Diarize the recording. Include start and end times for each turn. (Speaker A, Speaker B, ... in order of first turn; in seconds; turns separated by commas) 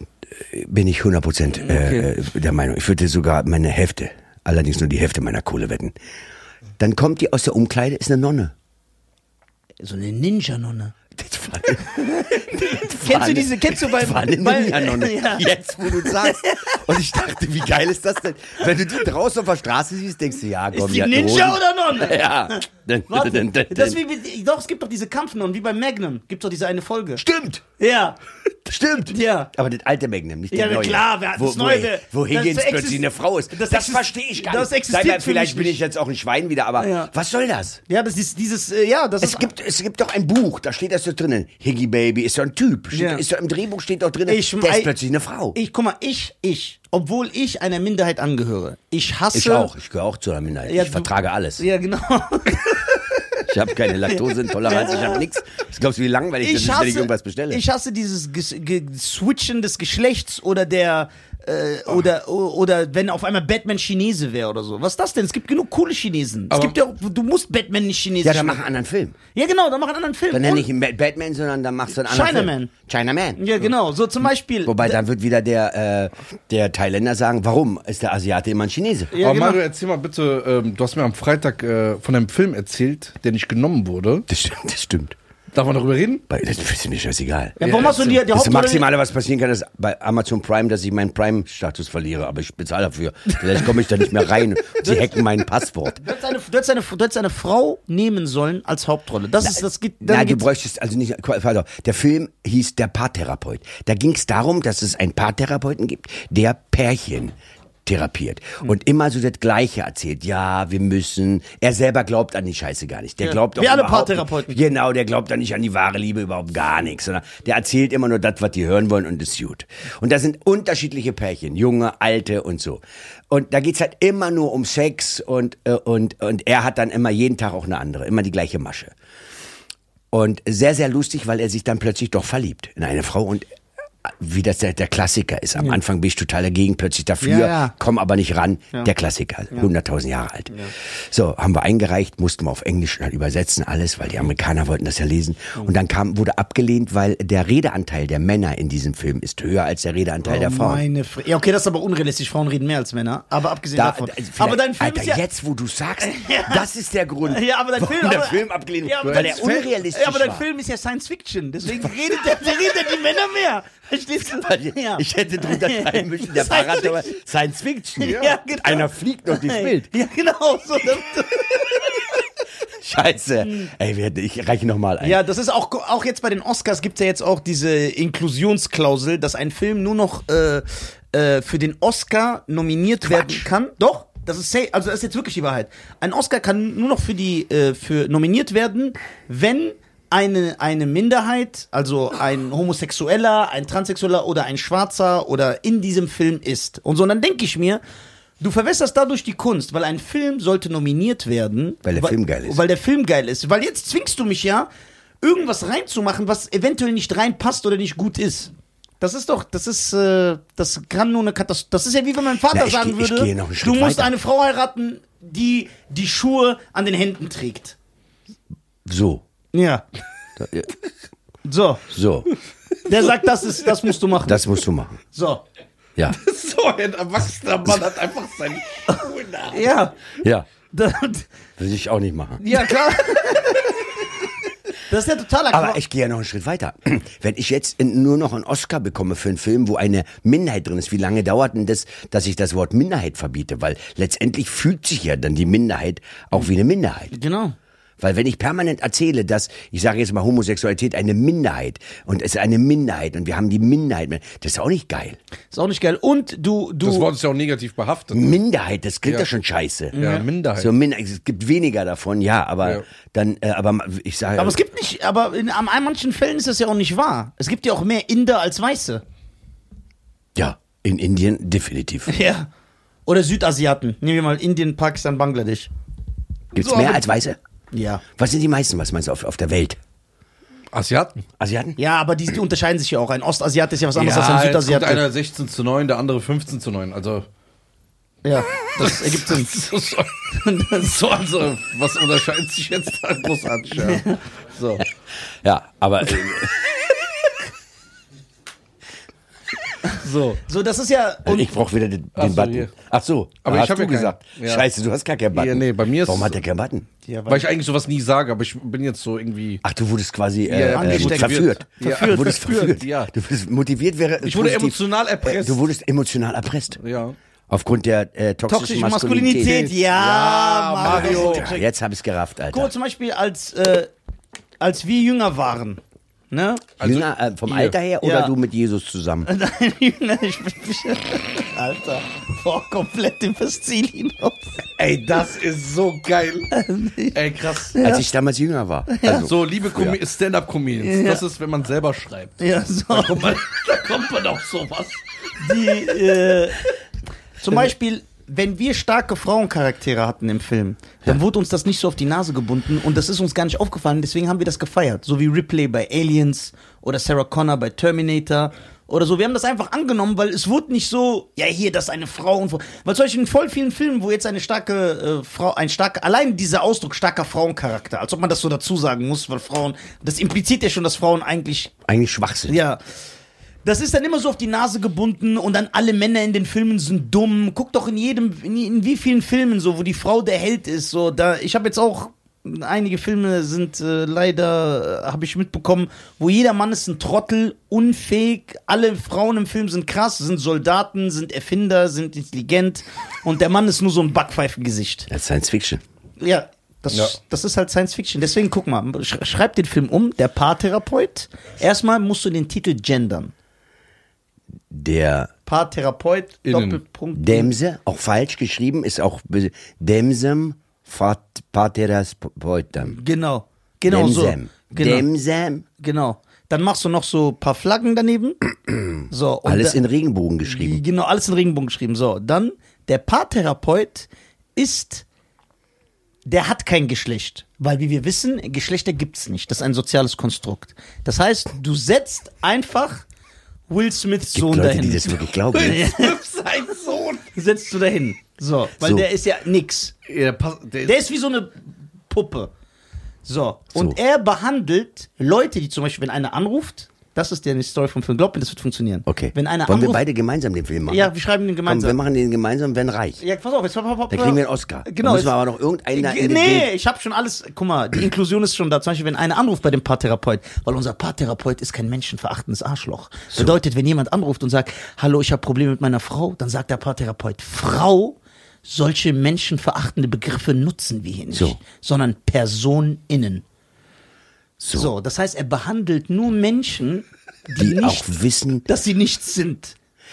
Speaker A: 0.4-5.9, Speaker B: 1.6-2.1, Speaker A: 6.8-8.5, Speaker B: 9.8-10.9, Speaker A: 11.1-24.0, Speaker B: 11.8-16.8, Speaker B: 20.7-27.2, Speaker A: 27.2-27.6, Speaker B: 27.8-28.2, Speaker A: 28.7-37.8, Speaker B: 29.1-29.5, Speaker B: 30.5-35.8, Speaker B: 36.8-37.1, Speaker B: 37.9-39.5, Speaker A: 39.2-45.6, Speaker B: 42.9-43.2, Speaker B: 44.3-44.9, Speaker B: 45.5-49.7, Speaker A: 49.3-51.6, Speaker B: 50.7-55.2, Speaker A: 53.5-57.6, Speaker B: 56.4-68.6, Speaker C: 66.5-66.8, Speaker A: 68.2-69.2, Speaker B: 69.3-70.7, Speaker A: 70.3-73.4, Speaker B: 72.0-72.7, Speaker B: 73.4-75.0, Speaker A: 74.7-79.1, Speaker B: 79.1-79.6, Speaker C: 79.2-84.3, Speaker A: 84.3-85.2, Speaker C: 85.5-86.2, Speaker A: 86.3-96.0, Speaker B: 87.6-88.9, Speaker C: 87.6-88.2, Speaker B: 94.7-95.4, Speaker B: 95.9-100.5, Speaker A: 99.4-107.3, Speaker A: 107.9-128.9, Speaker B: 113.2-114.6, Speaker A: 130.1-133.5, Speaker A: 134.0-150.8, Speaker B: 137.2-137.7, Speaker B: 150.2-155.2, Speaker A: 153.7-160.4, Speaker B: 156.0-156.7, Speaker B: 157.2-167.2, Speaker C: 159.0-159.7, Speaker A: 161.7-162.2, Speaker A: 164.3-169.9, Speaker B: 168.0-172.1, Speaker A: 172.8-175.2, Speaker B: 173.4-173.7, Speaker B: 175.0-197.8, Speaker A: 183.1-183.4, Speaker B: 198.4-204.7, Speaker A: 201.8-202.6, Speaker B: 205.2-217.8, Speaker A: 212.5-214.1, Speaker A: 218.8-219.2, Speaker B: 219.5-219.8, Speaker A: 220.4-220.7, Speaker B: 221.4-221.9, Speaker A: 221.9-222.3, Speaker B: 222.9-224.5, Speaker A: 224.2-225.0, Speaker B: 225.1-225.4, Speaker C: 226.1-229.7, Speaker B: 228.9-230.0, Speaker A: 230.2-230.5, Speaker B: 230.7-231.3, Speaker A: 231.6-232.4, Speaker B: 232.4-233.9, Speaker C: 232.5-233.2, Speaker B: 234.9-235.8, Speaker A: 235.5-247.1, Speaker B: 247.1-247.6, Speaker A: 248.0-255.2, Speaker B: 255.5-257.1, Speaker C: 256.8-258.4, Speaker A: 258.1-260.0, Speaker B: 259.9-260.2, Speaker C: 260.0-260.7, Speaker A: 260.6-264.6, Speaker B: 264.4-269.0, Speaker A: 270.4-272.1, Speaker B: 272.1-272.5, Speaker B: 273.1-275.7, Speaker A: 276.5-277.4, Speaker B: 276.6-277.1, Speaker B: 277.7-278.0, Speaker A: 278.2-279.8, Speaker C: 280.7-281.2, Speaker A: 281.4-281.8, Speaker B: 281.8-285.1, Speaker C: 283.9-287.3, Speaker B: 288.2-289.5, Speaker C: 288.8-290.1, Speaker B: 290.3-291.0, Speaker C: 290.7-294.8, Speaker B: 293.8-294.2, Speaker A: 295.4-296.6, Speaker C: 299.9-300.4, Speaker B: 300.5-301.5, Speaker A: 301.3-306.9, Speaker C: 302.2-302.7, Speaker C: 303.4-304.7, Speaker C: 305.3-306.4, Speaker B: 307.1-307.5, Speaker C: 307.3-309.6, Speaker A: 309.6-316.8, Speaker C: 310.5-313.1, Speaker B: 310.7-312.5, Speaker C: 314.2-315.6, Speaker C: 316.8-317.2, Speaker A: 317.5-319.7, Speaker B: 318.5-321.6, Speaker C: 319.5-321.5, Speaker A: 320.8-322.7, Speaker B: 322.5-323.9, Speaker B: 324.6-326.7, Speaker C: 326.8-327.8, Speaker A: 326.8-329.3, Speaker B: 328.0-328.3, Speaker B: 329.2-334.6, Speaker C: 334.8-336.6, Speaker B: 336.5-337.2, Speaker C: 337.1-337.8, Speaker B: 337.7-338.1, Speaker A: 337.8-340.0, Speaker B: 338.9-339.3, Speaker C: 339.1-345.0, Speaker B: 340.8-341.2, Speaker B: 342.4-343.4, Speaker B: 345.4-346.7, Speaker B: 347.4-371.7, Speaker A: 371.9-372.6, Speaker B: 372.5-372.8, Speaker B: 373.6-395.1, Speaker A: 395.1-395.8, Speaker B: 396.2-403.3, Speaker A: 404.7-405.3, Speaker B: 405.5-407.5, Speaker C: 406.5-406.8, Speaker A: 407.1-413.0, Speaker B: 412.8-415.1, Speaker A: 413.9-415.6, Speaker B: 415.8-418.4, Speaker A: 418.7-420.8, Speaker B: 419.1-419.8, Speaker B: 420.4-425.1, Speaker B: 426.3-433.1, Speaker B: 433.7-436.2, Speaker A: 434.4-435.8, Speaker C: 435.5-437.3, Speaker B: 437.3-439.9, Speaker A: 438.8-439.1, Speaker C: 440.1-441.0, Speaker B: 440.8-442.5, Speaker B: 443.2-450.0, Speaker A: 449.1-451.1, Speaker B: 450.9-452.0, Speaker A: 451.6-453.2, Speaker B: 453.2-455.4, Speaker A: 454.1-456.7, Speaker B: 455.9-473.4, Speaker A: 471.3-471.6, Speaker A: 474.6-474.9, Speaker B: 474.7-478.1, Speaker A: 477.6-478.7, Speaker B: 478.7-479.8